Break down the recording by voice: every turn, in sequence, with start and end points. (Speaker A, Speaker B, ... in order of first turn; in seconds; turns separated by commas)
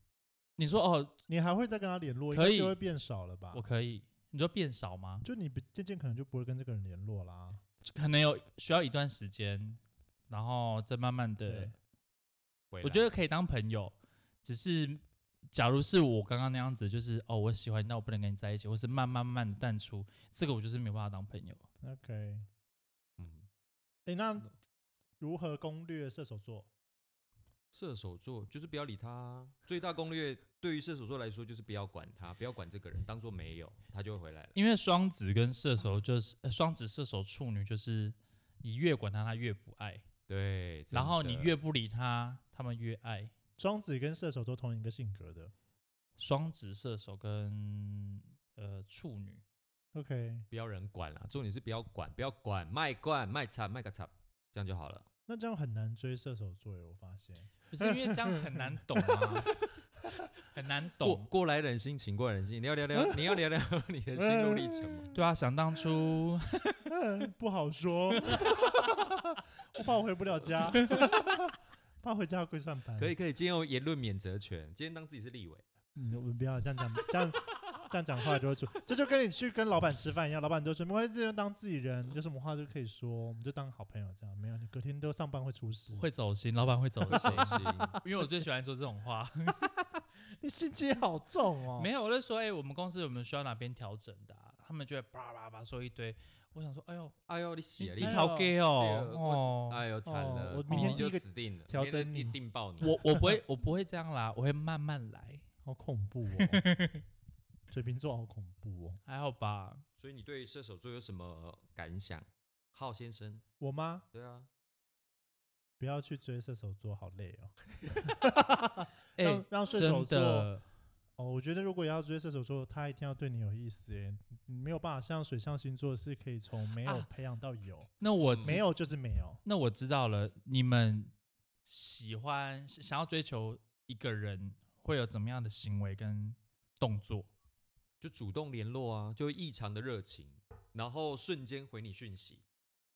Speaker A: 0.6-1.2, Speaker B: 1.3-3.7, Speaker A: 2.3-2.8, Speaker A: 3.5-5.3, Speaker B: 5.2-7.6, Speaker A: 7.8-11.7, Speaker B: 11.4-11.8, Speaker C: 12.7-13.1, Speaker A: 12.8-21.7, Speaker B: 21.8-22.5, Speaker C: 23.2-23.5, Speaker B: 24.1-24.5, Speaker B: 25.2-26.7, Speaker C: 27.7-34.5, Speaker A: 34.5-40.0, Speaker C: 40.3-41.5, Speaker A: 40.9-43.3, Speaker B: 43.6-45.5, Speaker A: 46.2-49.4, Speaker B: 49.9-50.5, Speaker C: 50.5-55.1, Speaker B: 55.3-59.5, Speaker A: 57.7-59.5, Speaker A: 60.5-61.3, Speaker C: 61.0-65.1, Speaker B: 62.9-63.4, Speaker B: 64.2-65.2, Speaker A: 65.1-66.9, Speaker B: 66.9-73.1, Speaker C: 73.0-75.6, Speaker B: 76.0-86.0, Speaker A: 85.9-89.6, Speaker B: 87.1-88.5, Speaker C: 87.1-88.0, Speaker B: 90.0-91.9, Speaker A: 91.8-97.2, Speaker C: 97.3-103.0, Speaker A: 97.8-99.8, Speaker B: 98.0-98.6, Speaker B: 100.0-102.4, Speaker A: 100.7-101.1, Speaker A: 102.8-105.4, Speaker B: 103.1-103.4, Speaker B: 105.6-106.7, Speaker A: 106.4-107.0, Speaker B: 107.7-109.0, Speaker A: 109.1-109.8, Speaker C: 110.0-113.4, Speaker B: 113.6-114.0, Speaker C: 114.1-114.5, Speaker B: 115.8-120.5, Speaker A: 119.2-120.6, Speaker B: 121.2-129.4, Speaker A: 128.0-128.7, Speaker C: 128.3-128.6, Speaker A: 129.4-131.1, Speaker A: 131.7-137.3, Speaker C: 138.0-142.4